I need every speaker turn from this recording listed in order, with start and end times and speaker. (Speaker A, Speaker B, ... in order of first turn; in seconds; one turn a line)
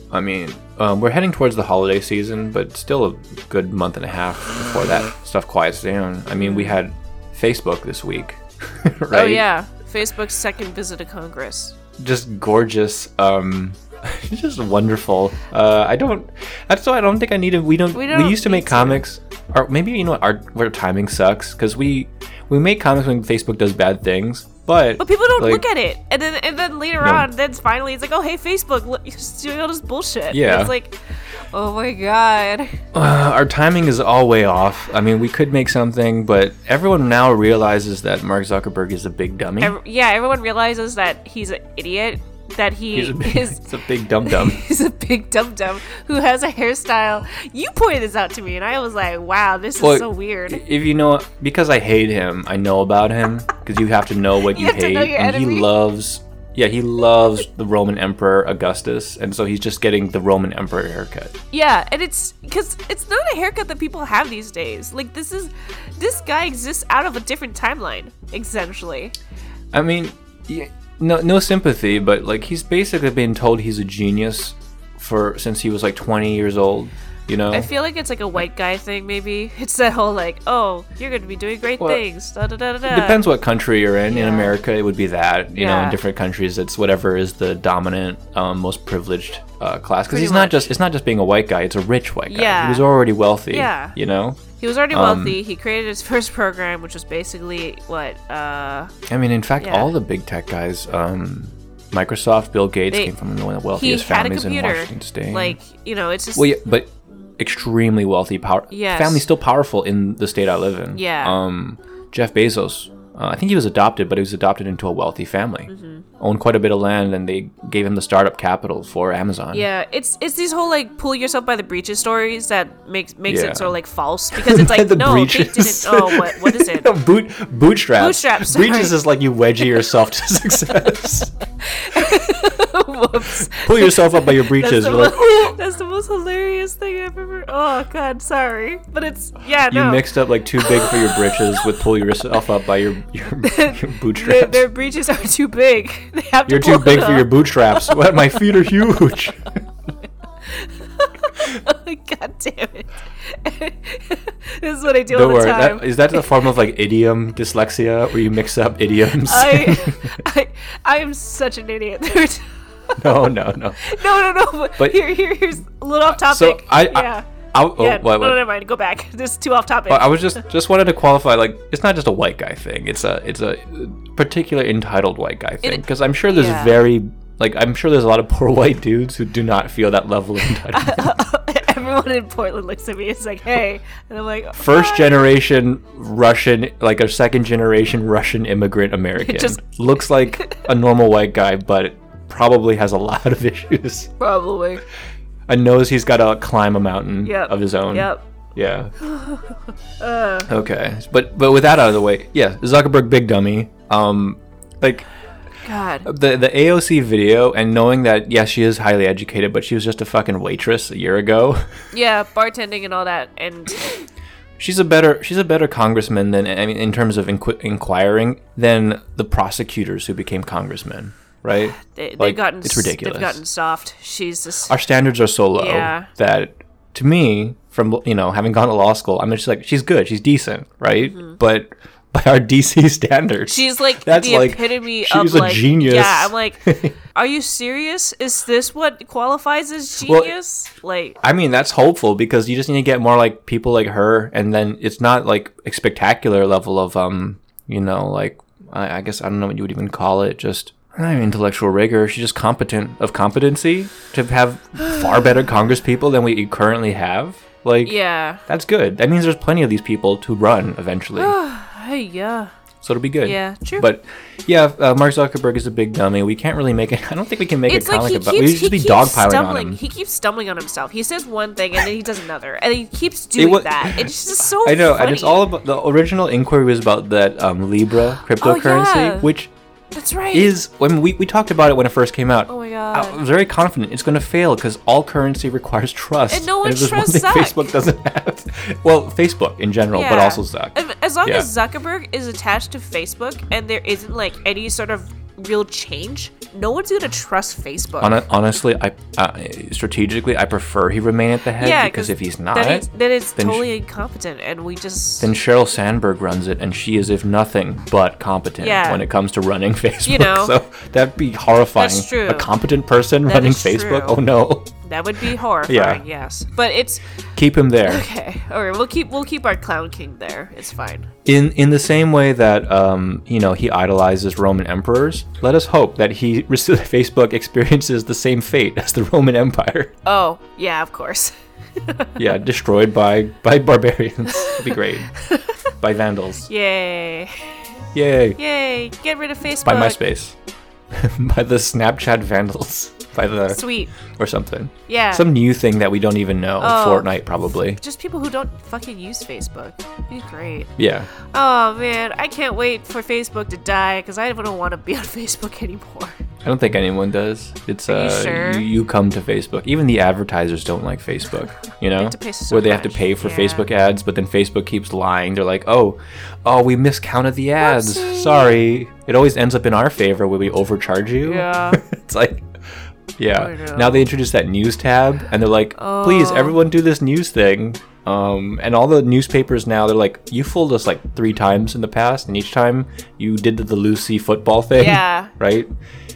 Speaker A: 0.1-9.4
Speaker B: 6.3-6.8
Speaker B: 9.1-11.8
Speaker A: 12.0-25.6
Speaker B: 17.9-19.0
Speaker B: 25.0-31.0
Speaker A: 27.0-27.3
Speaker A: 30.3-30.7
Speaker B: 31.5-32.8
Speaker A: 32.9-39.8
Speaker B: 39.6-43.7
Speaker A: 42.9-44.6
Speaker B: 44.2-50.6
Speaker A: 49.8-61.3
Speaker B: 54.5-55.7
Speaker B: 61.5-69.2
Speaker A: 69.7-77.7
Speaker B: 77.5-83.2
Speaker A: 82.9-95.4
Speaker B: 84.1-84.6
Speaker B: 85.5-86.0
Speaker B: 90.1-90.7
Speaker B: 92.3-92.9
Speaker B: 93.5-94.0
Speaker B: 94.6-98.9
Speaker A: 99.1-105.6
Speaker B: 99.6-99.9
Speaker B: 103.8-106.5
Speaker A: 106.4-119.7
Speaker B: 108.7-109.3
Speaker B: 110.9-111.4
Speaker B: 115.7-116.0
Speaker B: 119.5-126.9
Speaker A: 123.3-123.8
Speaker A: 124.3-131.3
Speaker B: 128.0-129.0
Speaker B: 131.6-140.1
Speaker A: 131.9-132.4
Speaker A: 133.2-135.6
Speaker A: 139.7-144.7
Speaker B: 140.6-142.3
Speaker B: 143.4-148.2
Speaker A: 146.5-149.6
Speaker B: 150.4-156.3
Speaker A: 155.1-160.2
Speaker B: 159.2-163.2
Speaker A: 163.0-164.0
Speaker B: 163.8-170.4
Speaker A: 164.8-165.1
Speaker A: 166.1-168.4
Speaker A: 169.9-181.2
Speaker B: 175.6-176.8
Speaker B: 180.6-185.2
Speaker A: 184.6-194.1
Speaker B: 189.2-189.6
Speaker B: 190.4-190.7
Speaker B: 194.2-194.8
Speaker A: 195.5-198.9
Speaker B: 197.2-198.2
Speaker B: 199.0-200.5
Speaker A: 200.5-205.1
Speaker B: 205.7-206.1
Speaker A: 206.0-211.6
Speaker B: 211.9-214.0
Speaker A: 214.6-223.4
Speaker B: 221.8-224.8
Speaker A: 224.7-236.9
Speaker B: 225.6-226.1
Speaker B: 231.0-231.4
Speaker B: 233.5-236.6
Speaker B: 237.2-241.2
Speaker A: 240.1-240.3
Speaker A: 241.2-258.0
Speaker B: 257.8-258.4
Speaker A: 258.5-261.4
Speaker B: 261.2-262.5
Speaker A: 262.8-269.8
Speaker B: 263.2-263.9
Speaker B: 267.7-275.5
Speaker A: 273.4-279.5
Speaker B: 278.4-279.3
Speaker B: 279.9-280.5
Speaker A: 280.3-291.5
Speaker B: 282.5-283.2
Speaker B: 286.3-287.7
Speaker B: 289.9-298.2
Speaker A: 298.0-303.7
Speaker B: 301.6-305.3
Speaker A: 305.2-314.7
Speaker B: 308.6-309.0
Speaker B: 310.1-310.6
Speaker B: 311.8-312.5
Speaker B: 313.2-314.2
Speaker B: 314.8-317.1
Speaker A: 315.7-316.0
Speaker A: 317.4-318.1
Speaker B: 317.9-321.1
Speaker A: 321.3-329.9
Speaker B: 330.1-332.2
Speaker A: 332.2-335.1
Speaker B: 334.3-335.6
Speaker A: 335.8-336.5
Speaker B: 336.5-337.3
Speaker A: 337.9-338.4
Speaker B: 338.4-340.0
Speaker A: 339.6-340.4
Speaker A: 340.9-347.8
Speaker B: 343.5-343.9
Speaker B: 344.9-345.3
Speaker B: 346.6-347.1
Speaker B: 347.8-356.2
Speaker A: 350.8-351.1
Speaker A: 356.4-372.5
Speaker B: 357.9-358.7
Speaker B: 362.0-363.7
Speaker B: 367.6-368.6
Speaker B: 371.2-371.8
Speaker A: 373.2-385.7
Speaker B: 373.4-374.1
Speaker B: 375.8-376.6
Speaker B: 384.8-385.3